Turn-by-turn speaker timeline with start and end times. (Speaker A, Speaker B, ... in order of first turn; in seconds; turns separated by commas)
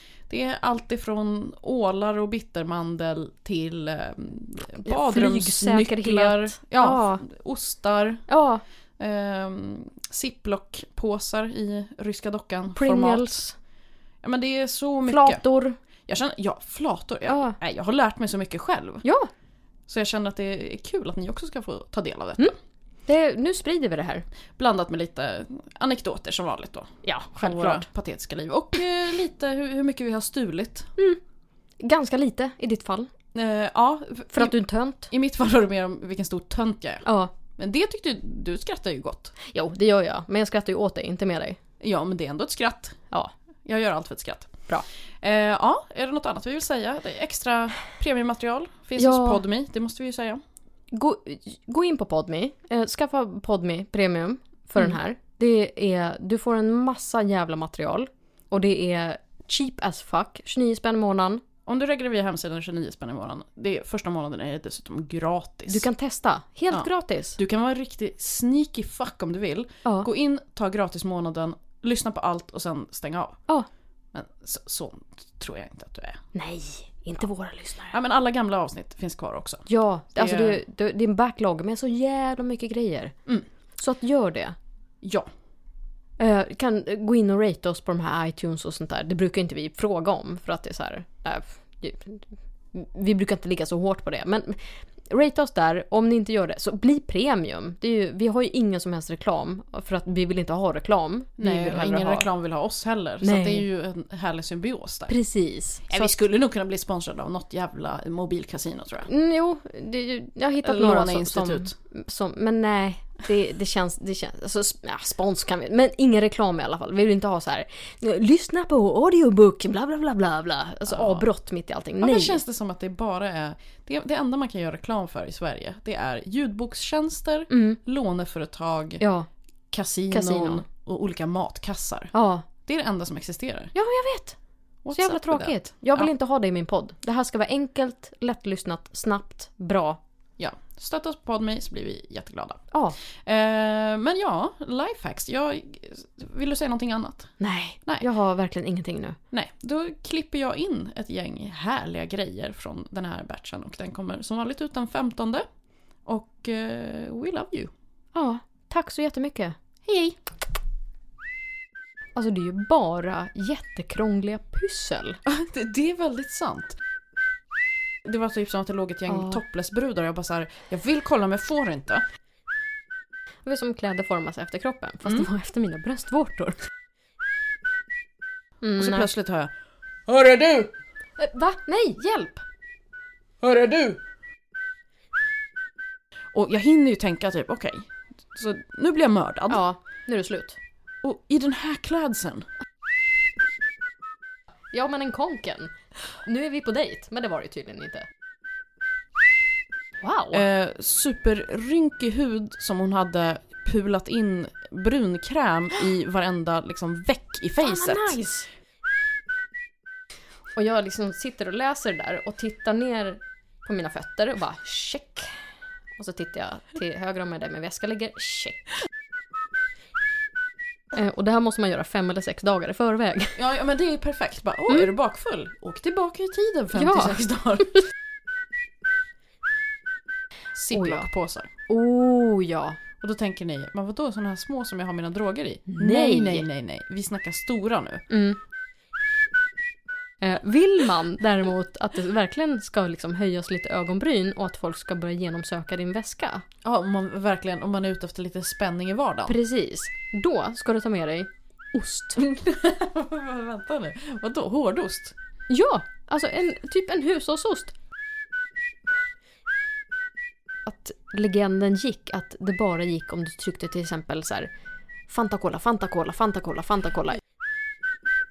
Speaker A: 0.3-8.2, Speaker B: 4.8-7.2, Speaker B: 8.3-8.6, Speaker A: 9.0-13.4, Speaker B: 12.8-13.6, Speaker A: 14.2-15.4, Speaker B: 15.1-15.8, Speaker A: 16.1-19.0, Speaker B: 17.3-17.6, Speaker B: 19.0-19.3, Speaker A: 19.9-22.5, Speaker B: 23.1-24.2, Speaker A: 24.6-30.9, Speaker B: 27.0-27.9, Speaker B: 31.8-33.1, Speaker A: 33.3-34.6, Speaker B: 34.3-35.1, Speaker A: 35.1-37.0, Speaker B: 37.0-37.3, Speaker A: 37.6-39.3, Speaker B: 39.5-41.6, Speaker A: 41.8-43.0, Speaker A: 43.7-44.5, Speaker A: 45.2-50.4, Speaker B: 49.0-49.4, Speaker B: 50.9-61.4, Speaker A: 61.7-65.9, Speaker B: 65.7-67.4, Speaker A: 66.7-73.4, Speaker A: 74.1-76.2, Speaker B: 76.3-78.0, Speaker A: 77.9-80.6, Speaker B: 79.7-83.1, Speaker B: 83.8-84.5, Speaker A: 85.0-85.3, Speaker B: 86.2-102.3, Speaker A: 101.4-105.1, Speaker B: 103.2-103.7, Speaker B: 105.1-106.1, Speaker A: 105.9-109.1, Speaker B: 109.0-122.4, Speaker A: 110.6-111.7, Speaker A: 120.9-121.3, Speaker A: 122.0-129.0, Speaker B: 127.5-127.8, Speaker B: 129.0-129.3, Speaker A: 129.7-132.1, Speaker B: 130.1-130.6, Speaker B: 132.1-132.4, Speaker A: 132.6-133.7, Speaker B: 133.7-134.4, Speaker A: 134.8-136.1, Speaker B: 134.9-140.0, Speaker A: 140.4-142.6, Speaker B: 142.7-143.0, Speaker A: 143.2-147.3, Speaker B: 147.4-149.2, Speaker A: 149.3-155.4, Speaker A: 156.1-157.7, Speaker B: 158.1-159.6, Speaker A: 159.8-160.2, Speaker B: 162.1-165.2, Speaker A: 165.2-166.8, Speaker A: 168.0-172.0, Speaker B: 169.1-169.4, Speaker B: 173.4-176.6, Speaker B: 178.6-179.1, Speaker A: 178.8-179.5, Speaker A: 180.1-180.7, Speaker B: 181.2-182.4, Speaker A: 183.4-184.0, Speaker A: 186.3-189.6, Speaker B: 189.5-190.6, Speaker A: 191.0-192.4, Speaker B: 194.7-195.7, Speaker B: 196.2-198.1, Speaker B: 200.0-200.4, Speaker A: 200.3-208.2, Speaker B: 207.6-208.5, Speaker B: 210.5-215.3, Speaker B: 216.0-218.7, Speaker B: 220.9-223.4, Speaker A: 223.3-227.8, Speaker B: 226.7-227.2, Speaker A: 230.6-231.5, Speaker B: 230.7-231.1, Speaker B: 231.7-232.8, Speaker A: 233.0-238.0, Speaker B: 235.7-236.5, Speaker B: 238.1-238.4, Speaker B: 240.2-246.4, Speaker A: 246.6-249.3, Speaker B: 249.3-252.2, Speaker A: 252.2-255.1, Speaker B: 255.5-257.8, Speaker B: 260.6-264.5, Speaker B: 265.1-267.2